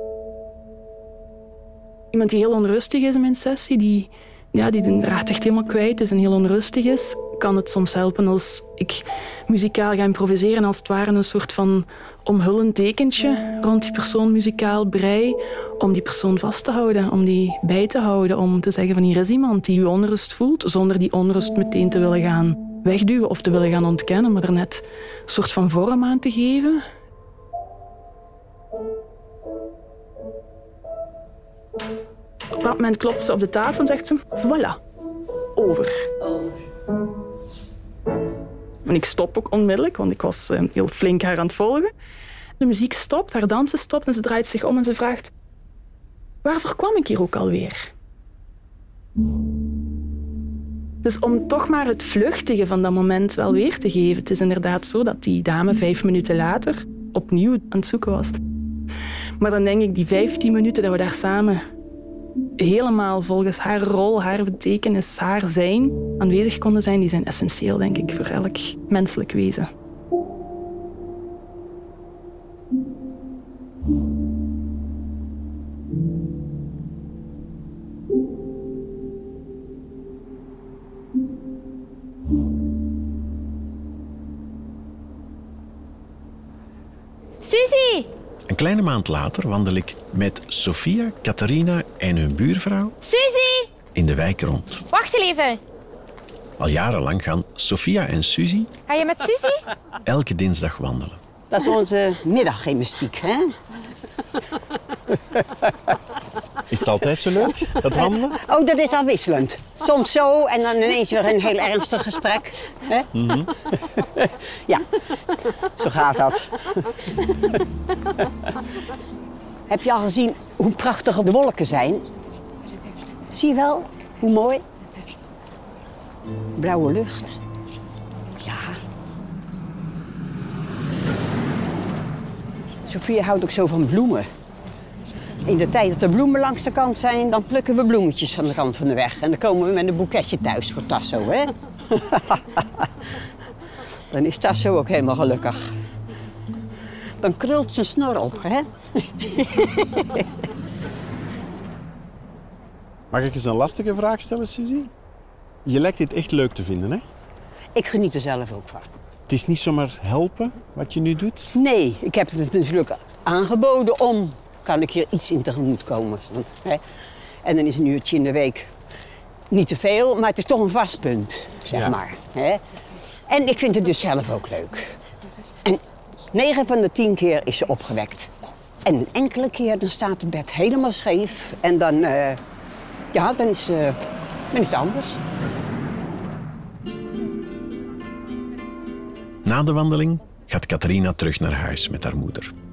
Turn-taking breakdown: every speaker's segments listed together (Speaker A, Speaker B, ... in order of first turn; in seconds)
Speaker A: 2.1-26.8, 32.5-34.8, 35.5-36.1, 38.8-41.9, 42.6-45.3, 46.4-47.9, 51.0-58.4, 59.4-61.6, 62.6-69.7
Speaker B: 87.4-88.1, 93.0-93.7, 94.9-95.6, 98.9-99.6
Speaker C: 88.5-93.0, 93.9-94.8, 96.6-98.7, 100.0-101.2, 189.4-192.5
Speaker D: 101.5-103.6, 105.4-105.7, 108.3-113.1, 113.7-114.9, 115.8-117.6, 119.7-122.1, 123.3-124.6, 126.6-127.4, 128.4-128.8, 132.9-134.3, 135.5-142.9, 144.1-145.7, 147.2-150.2, 157.8-158.9, 161.5-166.8, 167.4-168.7, 169.5-172.6, 173.3-174.9, 175.7-178.3, 178.8-182.4, 183.1-184.0, 184.5-185.2
Speaker E: 106.7-108.4, 113.1-113.5, 153.1-154.9, 155.7-157.1, 159.3-161.6